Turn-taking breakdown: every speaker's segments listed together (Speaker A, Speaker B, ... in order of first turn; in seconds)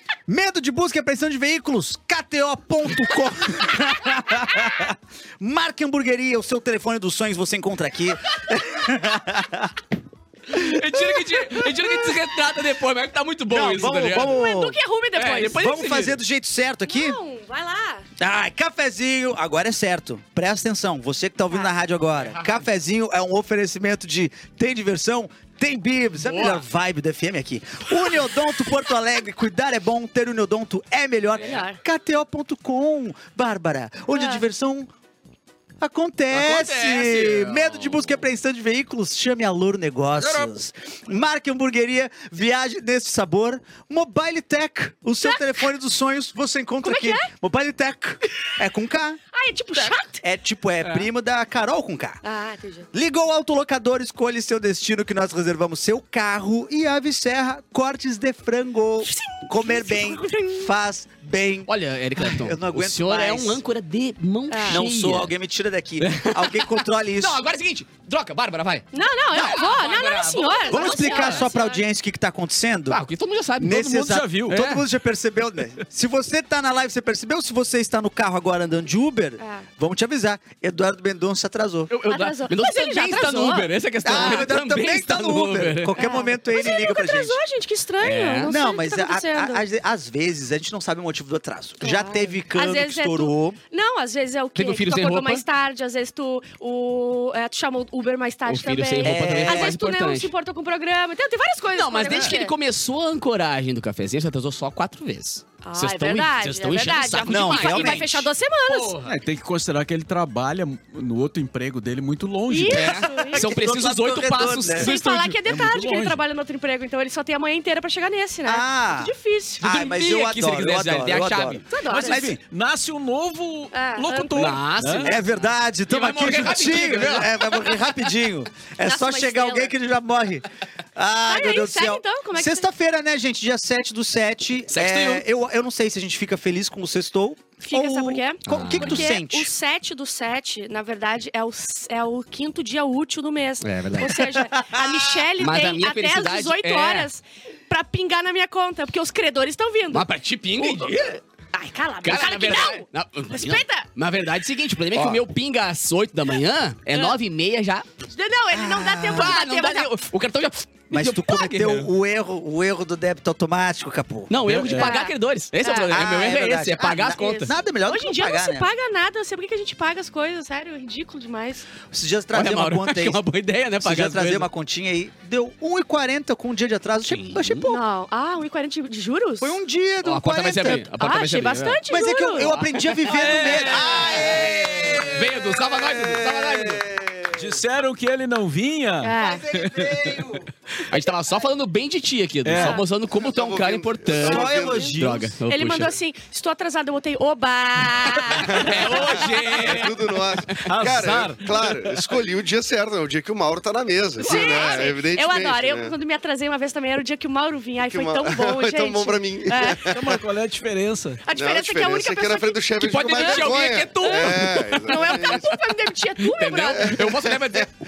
Speaker A: 0.3-9.7, 13.5-14.8, 15.4-17.2, 18.2-34.9, 35.8-49.2, 49.7-52.2, 52.9-63.6, 64.7-67.4, 69.3-69.6, 70.7-73.0, 73.6-81.9, 84.0-87.4, 88.5-93.6, 99.0-99.8, 107.2-108.3, 113.3-115.3, 118.4-122.4, 125.0-139.5, 144.1-145.2, 154.9-155.2, 158.5-159.3, 160.9-164.6, 165.9-168.7, 171.9-173.2, 173.8-177.8, 179.4-180.9, 181.9-185.2, 189.2-190.5, 194.1-195.4
Speaker B: 10.5-14.4, 15.1-16.2, 22.2-22.6, 26.2-26.6, 36.3-38.2, 40.2-40.5, 61.7-65.3, 66.0-71.5, 72.9-73.9, 74.5-74.8, 81.9-86.1, 88.0-88.6, 94.5-95.4, 98.4-100.3, 101.7-109.1, 112.7-114.9, 119.6-121.6, 124.3-127.6, 134.7-135.2, 138.5-139.1, 143.6-144.3, 145.4-147.1, 149.9-151.2, 152.0-157.9, 159.1-161.9, 164.3-167.6, 172.3-174.5, 177.0-177.8, 180.0-181.8, 182.4-186.8, 190.9-195.9, 198.3-200.7, 204.2-204.9, 212.8-217.7
Speaker C: 11.5-11.9, 14.1-15.8, 16.9-18.0, 31.4-31.8, 34.1-34.4, 46.8-47.3, 49.3-50.2, 52.2-52.9, 59.0-60.7, 64.5-64.8, 68.9-71.8, 79.4-79.7, 82.0-84.5, 86.0-89.6, 91.8-102.5, 105.6-109.0, 112.5-113.5, 114.7-119.6, 121.7-122.2, 123.7-124.6, 128.8-129.7, 131.2-132.7, 137.7-150.1, 150.6-153.9, 158.1-159.9, 164.7-166.0, 166.8-171.7, 177.7-179.5, 180.9-182.6, 189.0-189.4, 192.6-192.8, 195.4-199.6, 204.2-209.9, 211.2-213.5, 214.1-217.0
Speaker D: 73.6-74.7, 109.0-113.3, 115.1-116.2, 121.9-125.2, 164.4-165.0, 183.1-184.2, 187.3-190.4, 192.4-192.8, 198.5-199.6, 200.6-202.1, 209.7-211.2
Speaker E: 184.5-187.6, 193.1-195.0, 199.5-205.9, 207.9-210.2, 211.3-215.5, 216.8-217.7